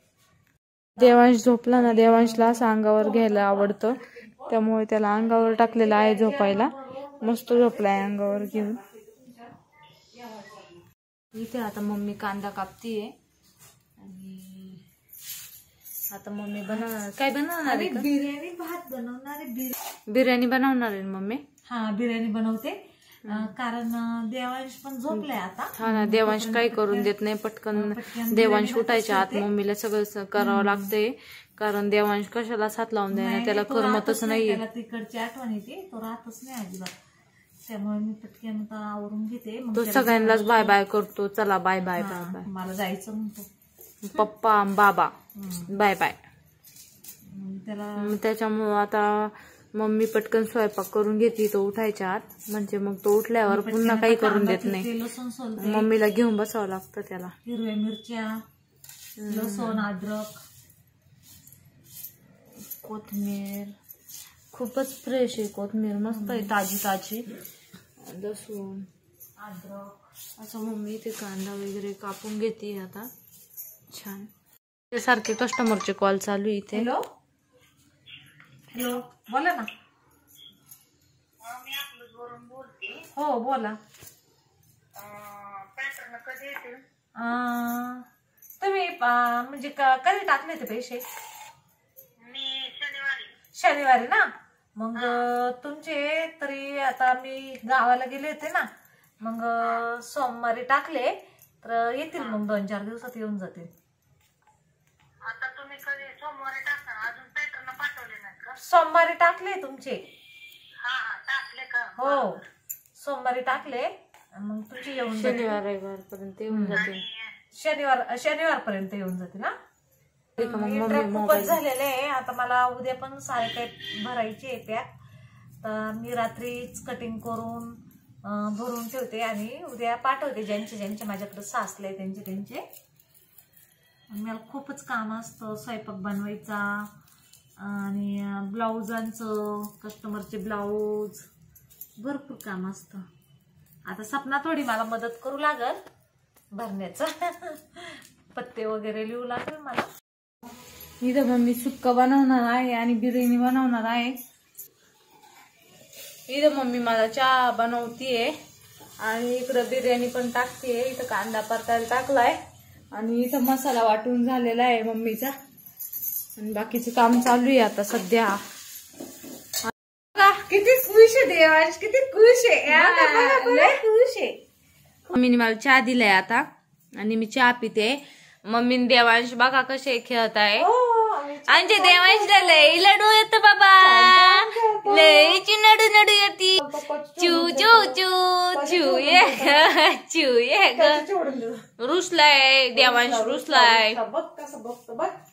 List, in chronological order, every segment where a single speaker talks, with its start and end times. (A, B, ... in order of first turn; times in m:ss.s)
0:01.0-0:08.8 A
0:01.8-0:03.8 B
0:05.4-0:09.3 B
0:11.3-0:13.1 A
0:14.0-0:14.8 A
0:16.1-0:18.1 A
0:17.6-0:19.8 B
0:20.1-0:21.4 A
0:21.7-0:27.1 B
0:25.1-0:34.6 A
0:27.7-0:29.5 B
0:30.4-0:30.9 B
0:33.1-0:36.9 B
0:37.7-0:40.8 B
0:39.7-0:42.5 A
0:42.0-0:43.5 B
0:44.0-0:45.1 A
0:45.4-0:45.7 B
0:45.7-0:46.2 A
0:47.3-0:48.1 B
0:48.0-0:54.9 A
0:53.5-0:55.9 B
0:55.6-0:57.3 A
0:57.4-0:58.4 B
0:59.2-0:59.8 A
0:59.3-1:00.4 B
1:02.8-1:03.7 A
1:04.5-1:07.3 A
1:06.1-1:06.5 B
1:08.0-1:08.9 A
1:09.4-1:10.0 B
1:10.4-1:13.1 A
1:13.9-1:14.3 A
1:14.9-1:16.9 A
1:16.7-1:17.0 B
1:18.7-1:19.7 B
1:21.4-1:23.0 C
1:23.0-1:23.8 B
1:25.0-1:26.8 C
1:27.2-1:28.0 B
1:28.6-1:31.0 B
1:32.3-1:33.3 C
1:33.6-1:38.7 B
1:39.2-1:43.7 B
1:45.3-1:48.5 C
1:48.6-1:50.0 B
1:50.8-1:52.0 C
1:51.9-1:52.4 B
1:53.0-1:55.6 B
1:55.1-1:57.1 A
1:56.5-1:56.9 B
1:57.5-1:59.5 B
2:00.4-2:01.6 A
2:00.4-2:04.9 B
2:05.6-2:07.7 B
2:08.2-2:12.6 B
2:14.1-2:16.9 B
2:17.6-2:21.3 B
2:22.0-2:23.0 B
2:23.9-2:25.8 B
2:26.5-2:29.9 B
2:31.0-2:34.2 A
2:36.3-2:38.3 A
2:39.0-2:42.4 A
2:42.9-2:45.3 A
2:46.4-2:48.4 A
2:50.2-2:54.4 B
2:52.7-2:53.8 A
2:55.1-2:56.4 A
2:57.0-3:00.7 A
3:00.6-3:02.9 B
3:01.5-3:06.7 A
3:03.8-3:05.4 B
3:06.6-3:08.0 B
3:07.2-3:11.0 A
3:08.5-3:09.7 B
3:10.7-3:11.6 B
3:11.8-3:14.0 A
3:12.7-3:15.2 B